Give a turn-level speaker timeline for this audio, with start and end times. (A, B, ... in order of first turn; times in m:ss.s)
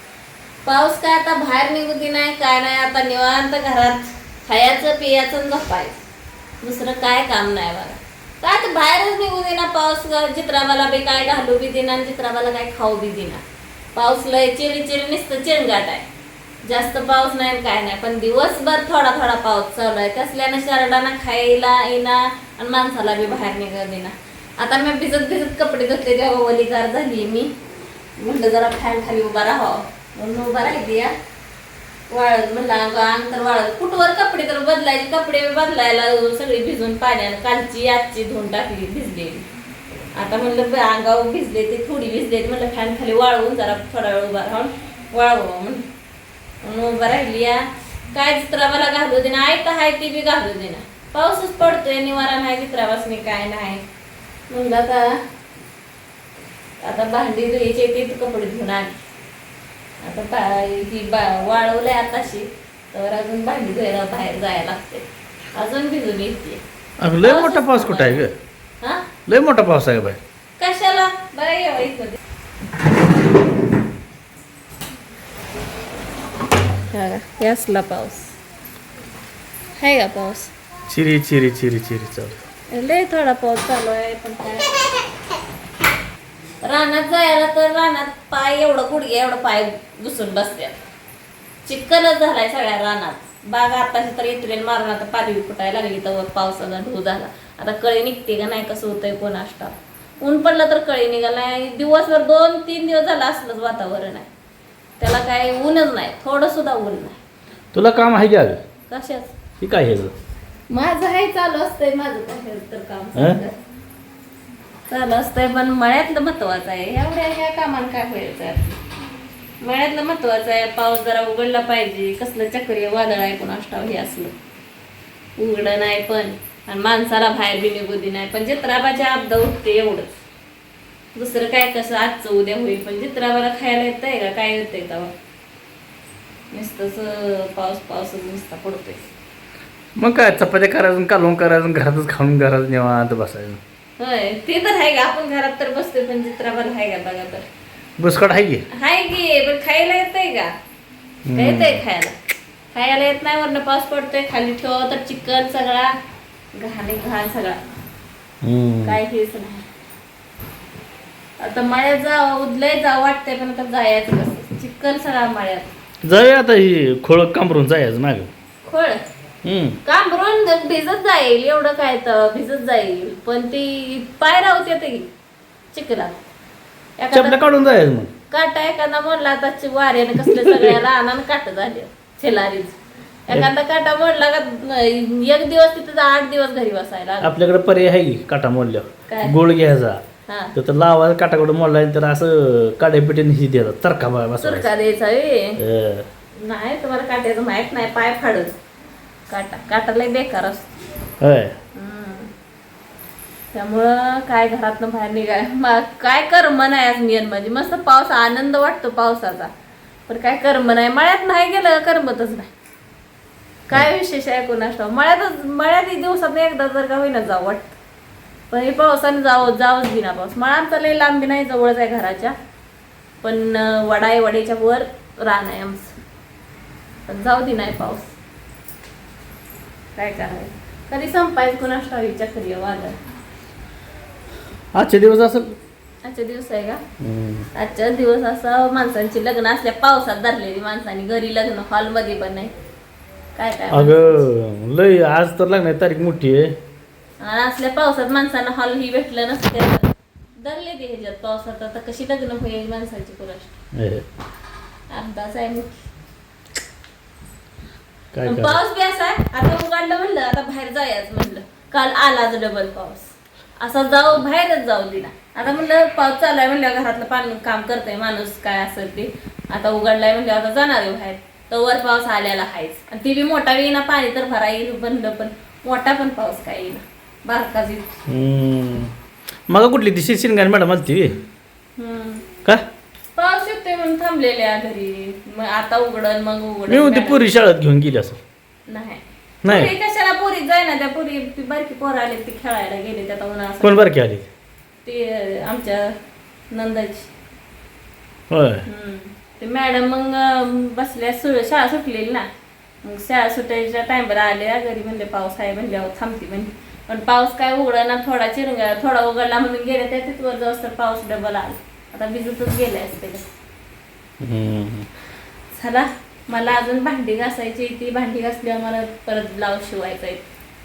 0:00.6-0:06.0 A
0:06.6-0:13.4 A
0:14.0-0:16.1 A
0:16.7-0:27.5 A
0:28.2-0:31.1 A
0:32.1-0:39.5 A
0:40.2-0:45.8 A
0:46.6-0:53.8 A
0:54.5-0:55.2 A
0:56.8-0:59.0 A
1:00.0-1:06.6 A
1:07.0-1:08.3 B
1:07.2-1:08.2 A
1:08.8-1:09.1 A
1:09.3-1:10.2 B
1:10.6-1:12.2 A
1:16.9-1:18.3 A
1:19.8-1:20.5 A
1:20.9-1:22.4 B
1:22.7-1:24.7 A
1:26.6-1:30.8 A
1:31.6-1:44.3 A
1:45.0-1:47.2 A
1:47.7-1:48.6 B
1:48.9-1:49.3 A
1:49.6-1:50.1 B
1:50.7-1:53.6 A
1:53.2-1:53.4 B
1:54.9-1:58.8 A
1:59.6-2:04.4 A
2:05.4-2:10.1 A
2:11.2-2:15.1 A
2:16.5-2:19.0 A
2:20.0-2:23.6 B
2:24.0-2:27.5 A
2:28.0-2:28.7 B
2:28.7-2:30.5 A
2:31.3-2:31.8 B
2:31.3-2:32.2 A
2:32.7-2:35.9 A
2:36.6-2:37.6 A
2:38.4-2:39.0 B
2:38.8-2:39.6 A
2:41.4-2:45.7 A
2:46.0-2:48.3 B
2:48.6-2:49.0 A
2:49.4-2:49.8 B
2:49.8-2:55.1 A
2:55.7-2:56.2 A
2:57.0-2:57.4 A
2:57.1-2:58.1 B
2:58.3-3:07.3 A
3:00.3-3:00.8 B
3:07.2-3:10.0 B
3:09.1-3:09.4 A
3:10.3-3:10.6 A
3:10.6-3:14.7 B
3:14.4-3:15.6 A
3:15.6-3:16.1 B
3:16.4-3:18.5 A
3:19.3-3:20.7 A
3:21.2-3:21.6 B
3:21.7-3:22.3 A
3:23.5-3:29.5 A
3:30.1-3:32.5 A
3:33.7-3:37.8 A
3:38.5-3:42.4 A
3:43.2-3:46.0 A
3:47.1-3:48.1 A
3:50.0-3:53.0 A
3:54.7-3:55.6 B
3:56.0-3:56.8 A
3:57.0-3:57.5 B
3:57.5-4:02.5 A
4:03.4-4:04.3 A
4:03.7-4:06.5 B
4:07.2-4:13.6 A
4:13.8-4:14.0 B
4:14.9-4:15.9 A
4:18.1-4:18.6 B
4:18.3-4:37.9 A
4:38.1-4:38.9 B
4:39.5-4:41.2 B
4:41.8-4:42.3 A
4:43.2-4:47.3 A
4:46.7-4:48.2 B
4:48.7-4:53.9 A
4:49.4-4:49.7 B
4:53.6-4:54.3 B
4:54.8-4:56.0 A
4:56.5-4:57.1 A
4:58.3-4:58.6 B
4:58.6-5:02.3 A
5:02.8-5:13.2 A
5:14.2-5:14.9 B
5:15.5-5:20.3 A